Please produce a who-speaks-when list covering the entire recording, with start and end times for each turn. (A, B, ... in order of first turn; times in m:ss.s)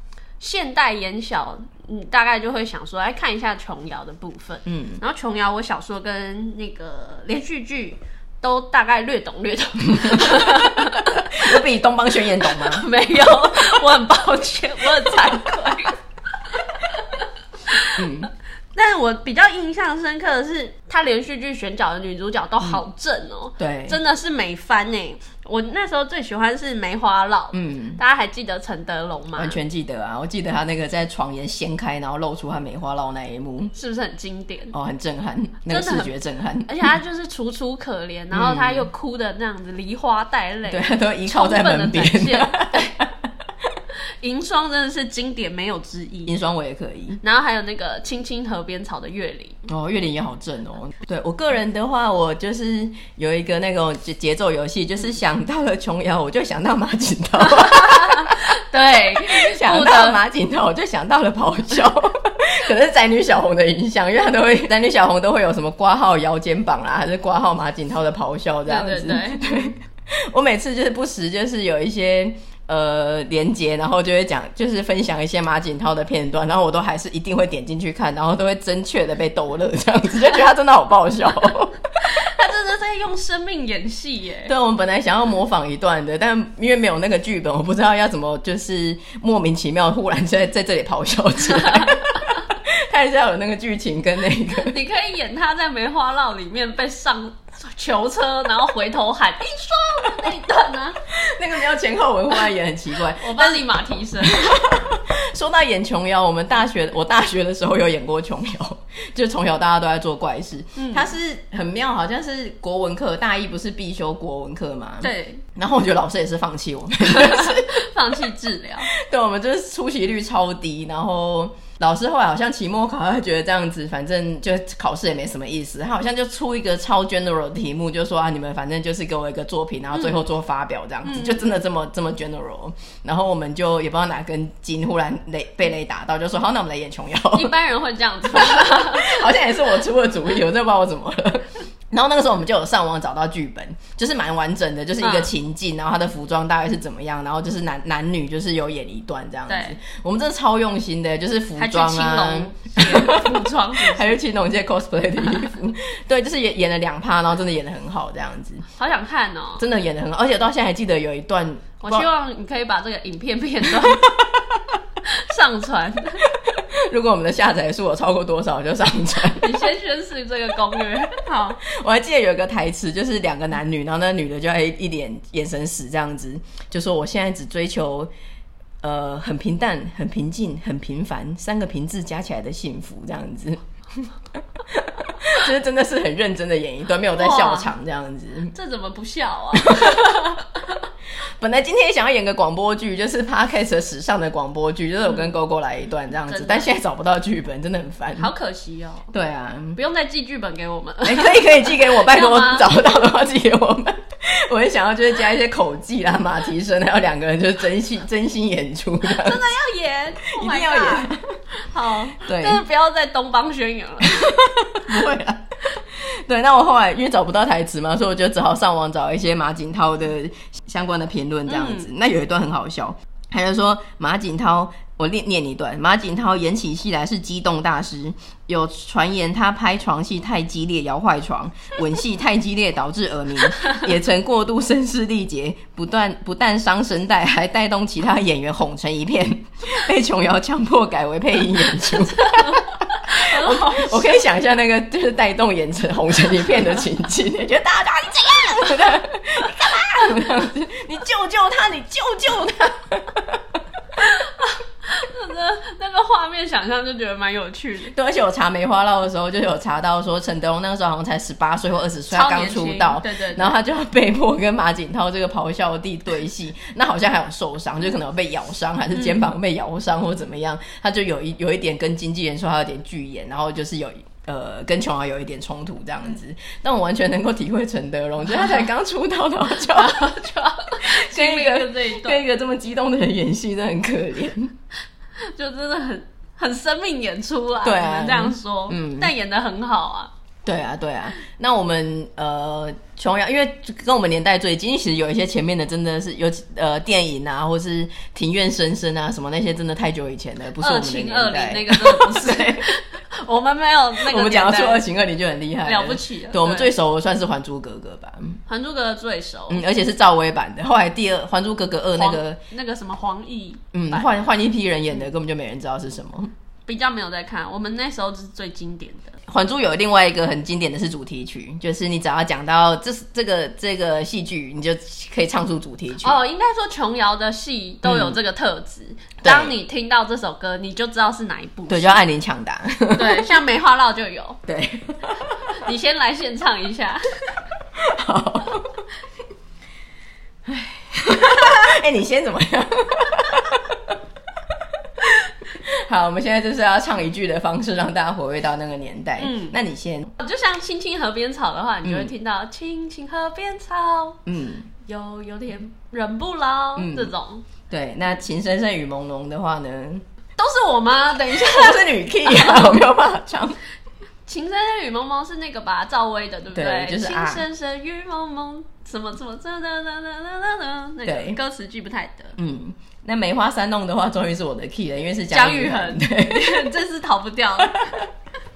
0:00.4-0:11.6 A
0:04.6-0:05.0 B
0:09.9-0:12.9 B
0:12.4-0:16.0 A
0:16.6-0:18.0 A
0:18.0-0:18.3 B
0:18.8-0:29.6 A
0:23.6-0:24.0 B
0:27.5-0:28.0 B
0:29.4-0:33.7 B
0:33.8-0:34.7 A
0:34.7-0:36.9 B
0:35.7-0:36.1 A
0:36.6-0:43.0 A
0:38.3-0:38.9 B
0:40.7-0:43.3 B
0:44.2-0:46.4 A
0:46.3-0:47.2 B
0:47.2-0:49.7 A
0:49.7-0:58.4 B
0:57.4-1:00.2 A
0:59.1-1:21.8 B
1:08.7-1:09.7 A
1:22.0-1:24.5 A
1:24.5-1:34.8 B
1:31.5-1:32.0 A
1:34.6-1:41.0 A
1:41.1-1:57.8 B
1:43.1-1:44.6 A
1:50.8-1:51.1 A
1:55.0-1:55.4 A
1:57.1-1:58.9 A
1:58.9-2:17.6 B
2:11.1-2:11.5 A
2:17.3-2:19.4 A
2:18.3-2:38.6 B
2:25.0-2:25.3 A
2:29.5-2:29.8 A
2:31.6-2:34.2 A
2:38.8-2:39.6 A
2:39.6-2:42.1 B
2:41.8-2:44.1 A
2:43.6-2:44.4 B
2:45.0-2:46.2 A
2:46.3-2:49.7 B
2:49.3-2:51.6 A
2:51.6-2:58.1 B
2:58.8-3:04.1 B
3:04.6-3:08.5 B
3:07.1-3:07.7 A
3:08.5-3:10.8 A
3:09.6-3:10.1 B
3:11.4-3:18.3 B
3:15.1-3:15.3 A
3:16.3-3:16.7 A
3:18.2-3:19.1 A
3:19.1-3:19.8 B
3:19.8-3:22.7 A
3:21.0-3:29.5 B
3:29.1-3:34.4 A
3:30.2-3:31.4 B
3:32.1-3:32.6 B
3:34.0-4:13.6 B
3:41.5-3:41.9 A
4:02.1-4:04.2 A
4:14.0-4:17.9 A
4:17.9-4:40.1 B
4:22.1-4:23.6 A
4:39.7-4:42.2 A
4:40.8-4:44.5 B
4:45.2-4:50.1 A
4:47.6-4:49.1 B
4:50.4-5:02.7 B
5:00.6-5:04.9 A
5:04.0-5:08.4 B
5:05.6-5:06.7 A
5:08.5-5:09.6 A
5:09.5-5:12.4 B
5:12.0-5:14.2 A
5:13.7-5:16.3 B
5:16.7-5:19.2 A
5:19.3-5:26.2 B
5:26.0-5:32.0 A
5:27.8-5:28.2 B
5:29.2-5:29.5 B
5:31.7-5:33.3 B
5:32.9-5:34.4 A
5:34.5-5:35.6 B
5:35.6-5:37.0 A
5:37.8-5:38.7 B
5:40.4-5:44.0 B
5:45.6-5:50.1 B
5:49.2-5:49.6 A
5:50.2-5:54.2 A
5:51.8-5:52.1 B
5:54.3-5:54.7 B
5:54.8-5:57.4 A
5:56.8-5:57.1 B
5:57.7-6:00.0 B
6:00.4-6:02.9 A
6:01.3-6:03.6 B
6:04.3-6:12.4 A
6:06.5-6:07.4 B
6:11.0-6:11.4 B
6:12.4-6:16.7 B
6:15.3-6:18.0 A
6:17.8-6:18.0 B